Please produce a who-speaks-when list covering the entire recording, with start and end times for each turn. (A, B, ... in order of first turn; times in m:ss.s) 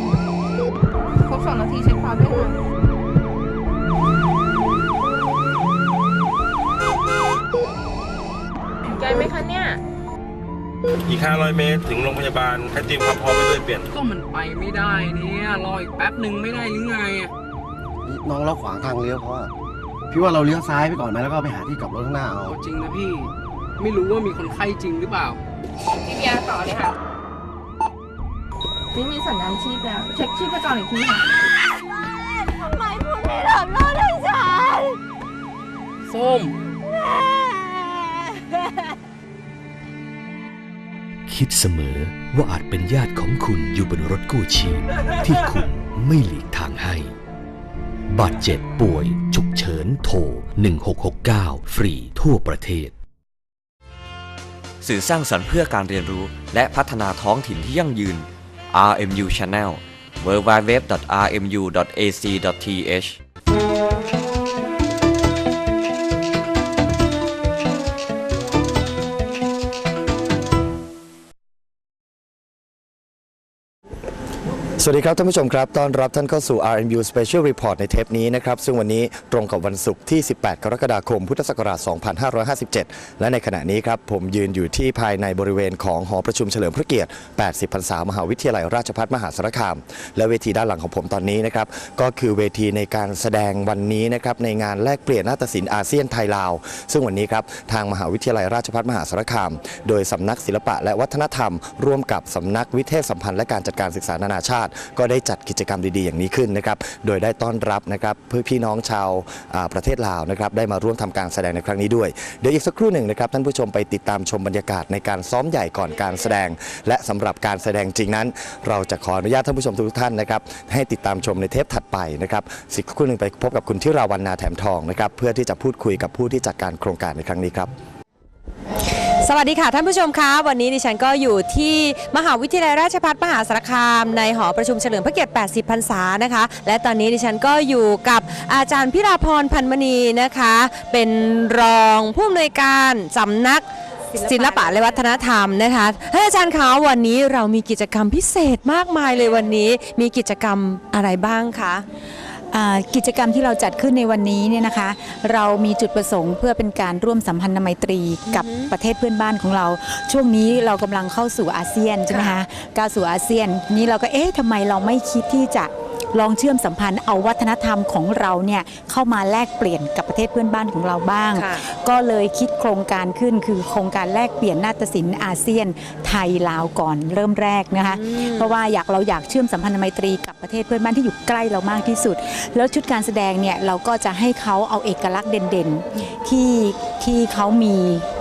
0:01.2-0:02.6 A
0:08.9-0:09.8 A
0:11.1-0:13.9 B
0:13.9-0:17.3 C
0:18.0-0:19.5 D
0:20.1-0:22.6 D
0:22.5-0:25.4 C
0:26.0-0:26.9 A
0:28.9-0:31.2 A
0:36.1-0:36.6 C
0:41.3-0:47.1 E
0:48.1-0:52.9 E
0:54.8-1:03.2 F
1:14.8-2:07.7 G
2:09.2-2:31.8 H
2:24.1-2:25.2 I
2:32.5-3:08.0 I
2:38.2-2:38.7 H
2:42.1-2:42.4 H
2:51.3-2:51.6 H
2:57.9-2:58.5 H